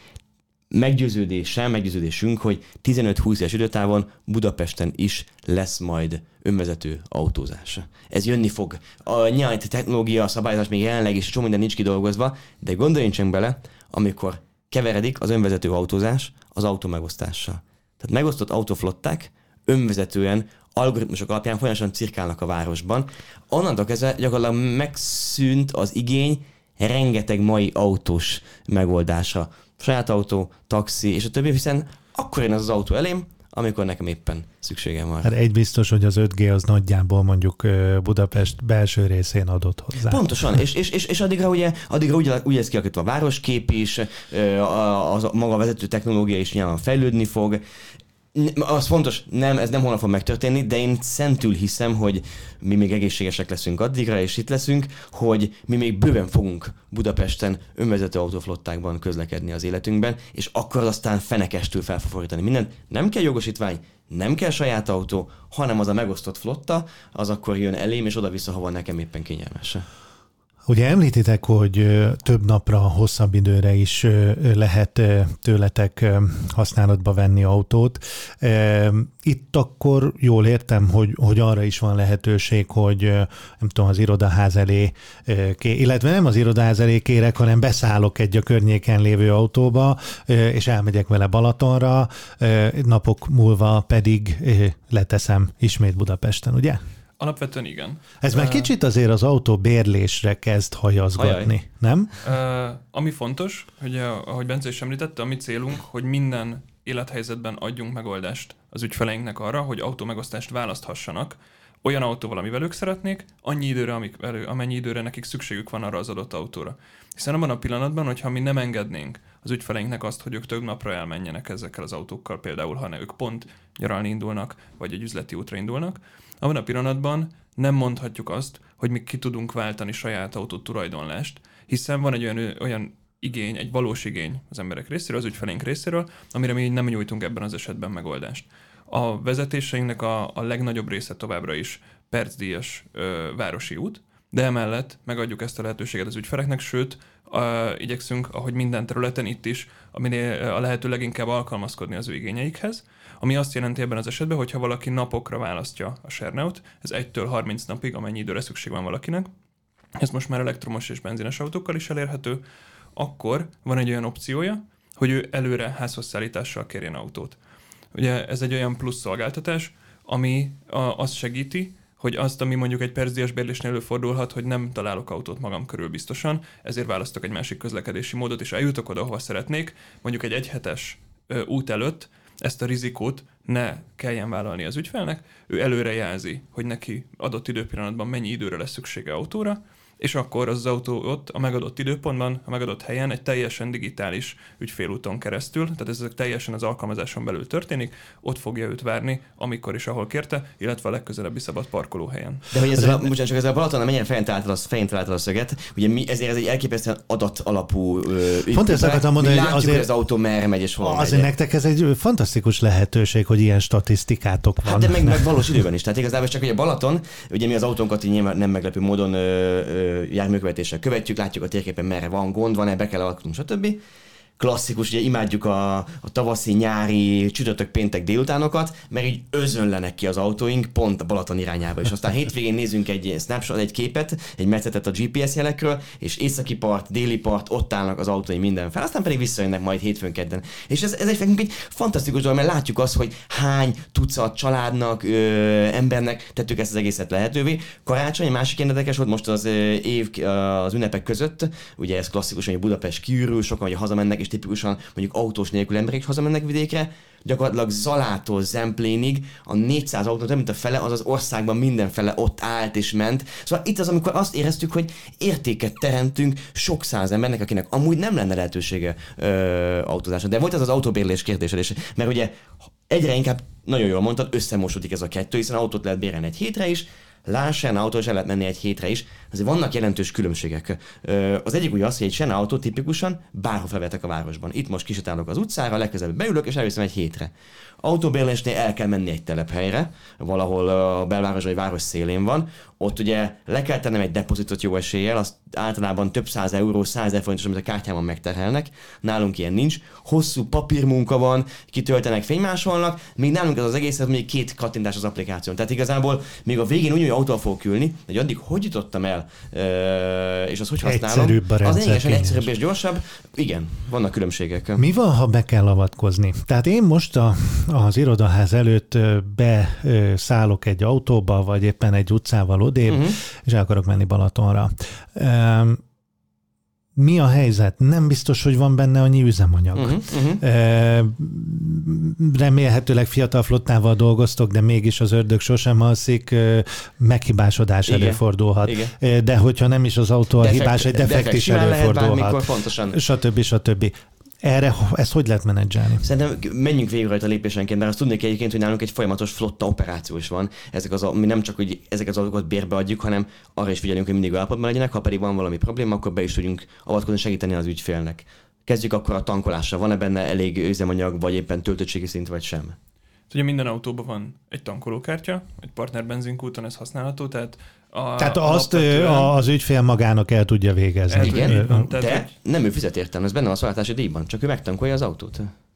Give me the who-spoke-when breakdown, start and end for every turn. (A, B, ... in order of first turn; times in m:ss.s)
0:00.7-0:35.3 A
0:35.2-0:40.6 B
0:40.0-0:47.6 A
0:48.3-1:09.9 A
1:10.7-1:36.8 B
1:37.2-1:38.7 C
1:38.2-1:42.1 B
1:41.2-1:41.5 A
1:42.2-2:39.3 C
2:40.0-2:42.4 C
2:43.0-2:47.4 C
2:47.9-3:22.5 C
3:22.5-3:31.3 A
3:22.8-3:23.0 B
3:28.5-3:29.9 B
3:30.8-3:35.6 B
3:34.6-3:43.8 A
3:44.4-5:14.8 A
5:10.8-5:12.5 B
5:14.8-5:25.8 B
5:22.9-5:23.2 A
5:27.0-5:46.1 B
5:29.8-5:30.4 A
5:37.9-5:38.9 A
5:40.4-5:43.0 A
5:46.0-6:02.8 A
6:03.3-6:09.3 C
6:08.2-6:11.9 B
6:11.1-6:12.3 C
6:11.2-6:15.5 A